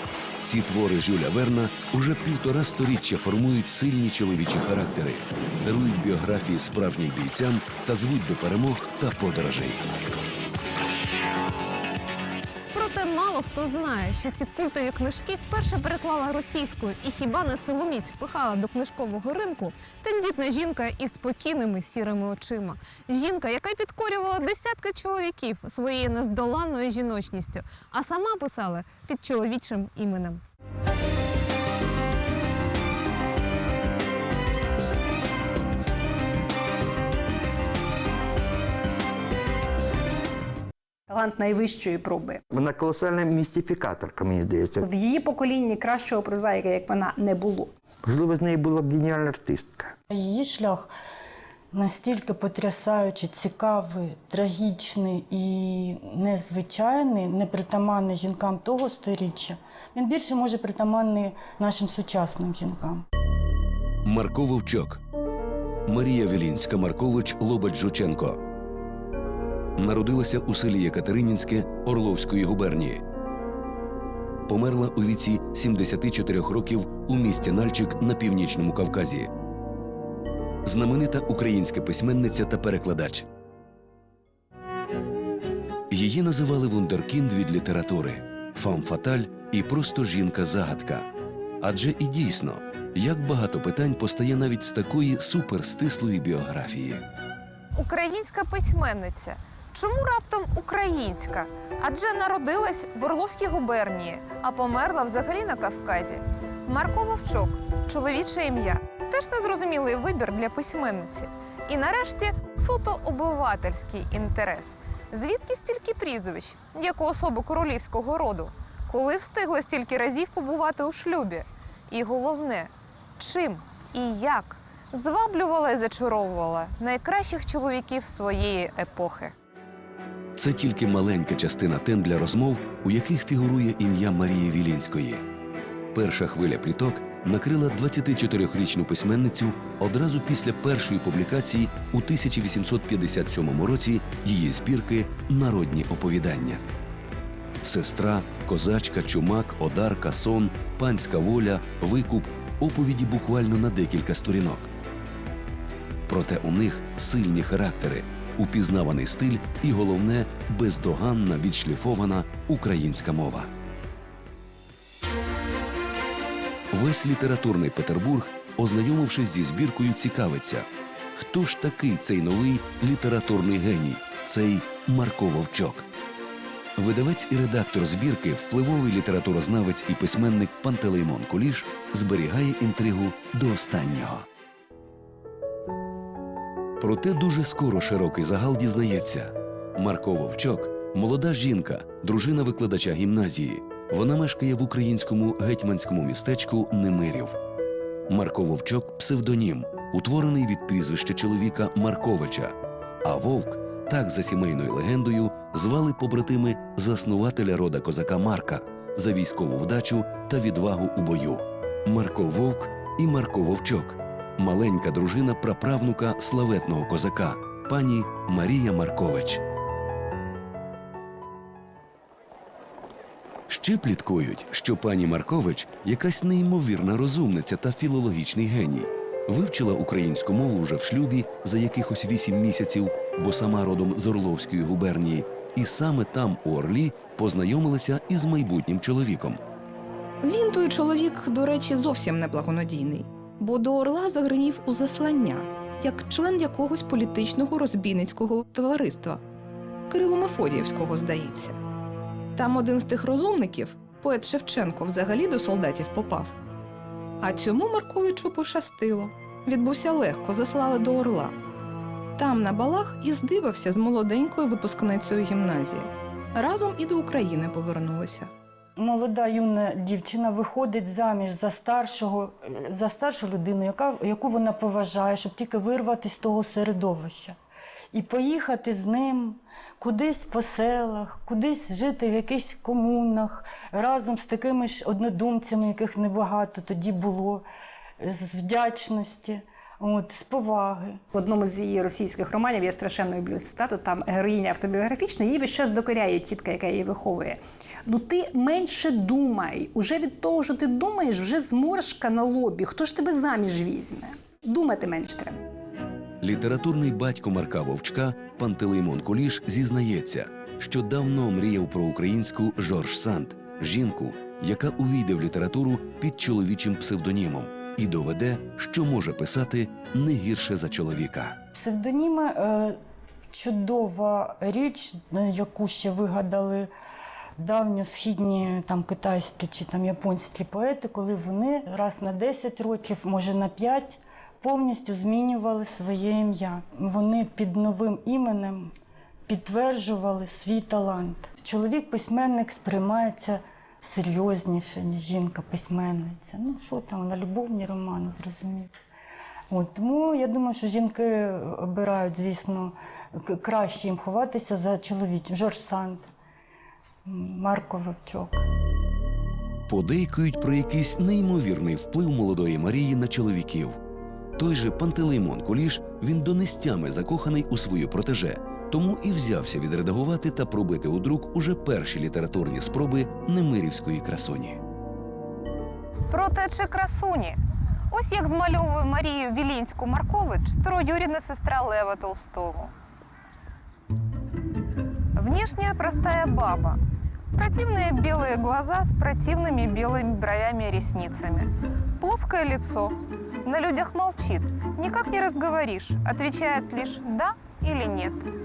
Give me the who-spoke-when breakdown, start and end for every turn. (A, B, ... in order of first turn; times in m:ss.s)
0:00.4-0:09.8 A
0:12.7-0:30.4 B
0:41.1-0:42.4 C
0:42.5-0:44.9 D
0:44.8-0:47.7 C
0:48.0-0:49.9 D
0:50.1-0:50.9 E
0:51.7-1:03.0 E
1:04.0-1:05.0 A
1:05.9-1:08.4 A
1:09.8-1:13.0 A
1:14.5-1:19.3 A
1:20.6-1:23.3 A
1:25.9-1:31.1 A
1:31.6-1:37.0 A
1:37.8-2:09.3 B
2:10.4-2:15.2 A
2:15.9-2:26.6 A
2:27.6-2:34.7 A
2:36.1-2:43.5 A
2:46.7-2:55.8 A
2:56.8-3:04.2 A
3:06.8-3:17.4 A
3:18.1-3:39.4 A
3:43.5-3:59.4 A
4:00.2-4:09.2 F
4:09.9-4:11.6 F
4:12.3-4:16.3 F
4:17.2-4:21.3 F
4:22.2-4:28.3 F
4:28.8-4:37.4 E
4:37.9-4:47.4 E
4:48.0-4:51.0 E
4:51.1-5:05.4 C
5:06.2-5:21.4 A
5:21.5-5:22.8 E
5:23.3-5:26.7 E
5:27.4-5:38.7 E
5:39.3-5:48.7 E
5:49.5-5:56.1 E
5:57.0-5:58.4 E
5:59.7-6:03.8 A
6:04.4-6:14.6 A
6:16.1-6:17.4 B
6:17.9-6:22.7 B
6:25.2-6:26.8 B
6:27.3-6:38.3 B